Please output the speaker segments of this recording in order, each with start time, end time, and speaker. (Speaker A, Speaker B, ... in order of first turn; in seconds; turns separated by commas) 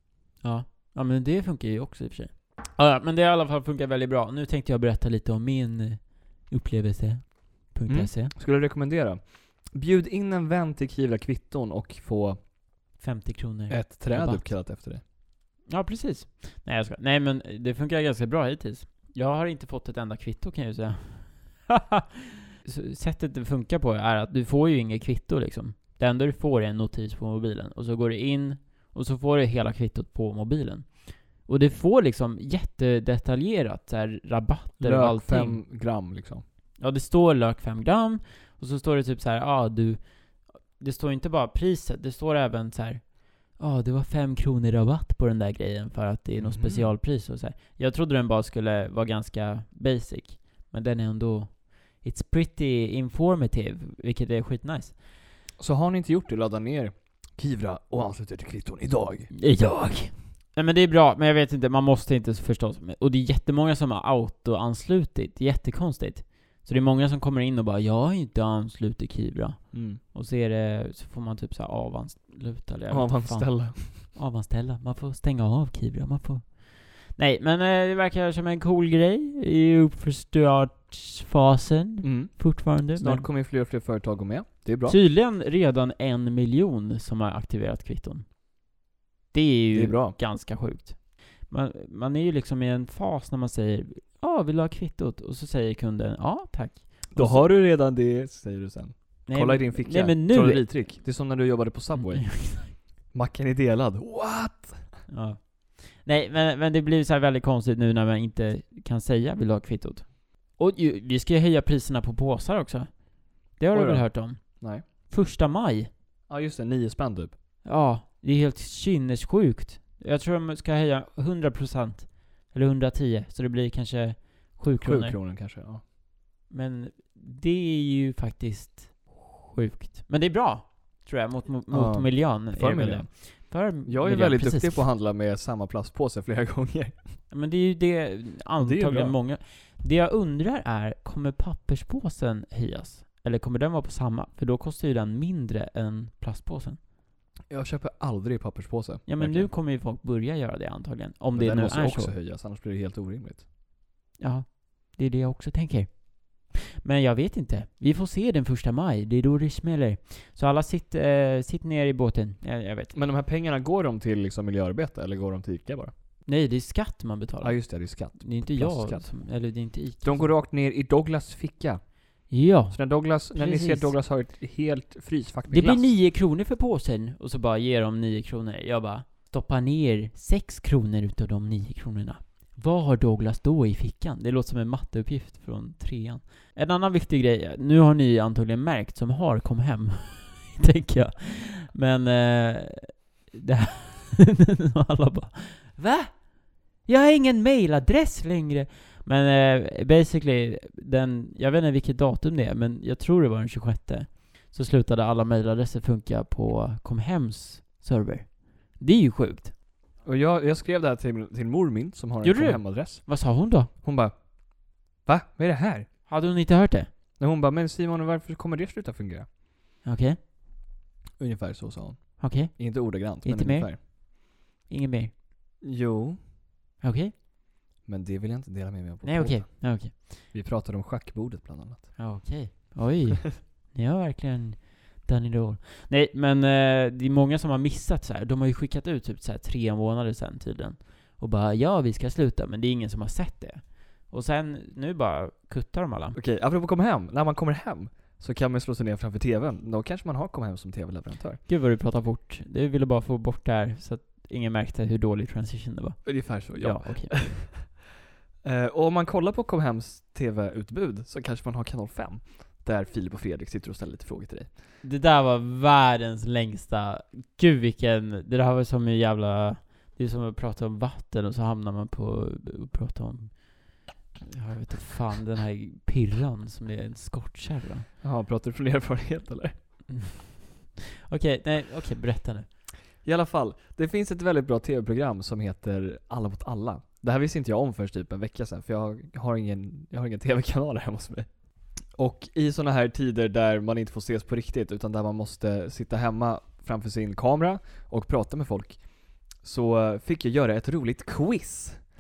Speaker A: 0.4-8.3, Speaker B: 7.9-12.4, Speaker A: 13.0-14.5, Speaker B: 13.7-15.0, Speaker A: 15.7-22.0, Speaker A: 22.6-35.6, Speaker B: 34.8-36.4, Speaker A: 36.8-40.0, Speaker A: 40.7-55.0, Speaker B: 46.4-46.9, Speaker B: 55.6-59.3, Speaker A: 59.3-83.3, Speaker B: 69.7-70.0, Speaker B: 72.9-74.0, Speaker B: 82.0-85.0, Speaker A: 84.9-88.3, Speaker A: 89.3-97.5, Speaker B: 89.7-90.2, Speaker B: 97.1-104.9, Speaker A: 99.3-100.7, Speaker A: 101.9-102.7, Speaker A: 105.1-115.9, Speaker B: 113.7-114.8, Speaker B: 116.3-117.3, Speaker A: 117.7-125.2, Speaker B: 124.8-125.8, Speaker A: 126.5-134.8, Speaker B: 131.7-137.0, Speaker A: 137.3-146.8, Speaker B: 138.6-139.2, Speaker B: 147.5-149.5, Speaker A: 149.1-152.1, Speaker B: 151.3-153.5, Speaker A: 154.2-162.9, Speaker B: 162.9-165.9, Speaker A: 166.3-170.3, Speaker B: 167.4-169.1, Speaker B: 170.0-171.8, Speaker A: 172.3-173.9, Speaker B: 172.7-175.9, Speaker A: 175.5-209.5, Speaker B: 210.0-213.2, Speaker A: 212.2-213.7, Speaker B: 213.7-214.2, Speaker B: 215.0-215.9, Speaker A: 216.1-216.9, Speaker B: 217.2-219.3, Speaker A: 219.8-220.2, Speaker B: 221.2-223.8, Speaker A: 222.2-224.0, Speaker A: 224.7-225.1, Speaker B: 225.6-226.2, Speaker A: 226.8-227.1, Speaker B: 227.8-229.7, Speaker A: 229.0-230.1, Speaker B: 230.3-232.0, Speaker A: 232.0-246.2, Speaker B: 246.2-251.4, Speaker A: 251.5-257.3, Speaker B: 256.1-257.8, Speaker B: 258.4-264.5, Speaker A: 264.8-277.9, Speaker B: 278.0-279.5, Speaker A: 279.9-280.4, Speaker A: 281.1-282.5, Speaker B: 283.0-291.3, Speaker B: 291.9-298.9, Speaker B: 299.4-301.8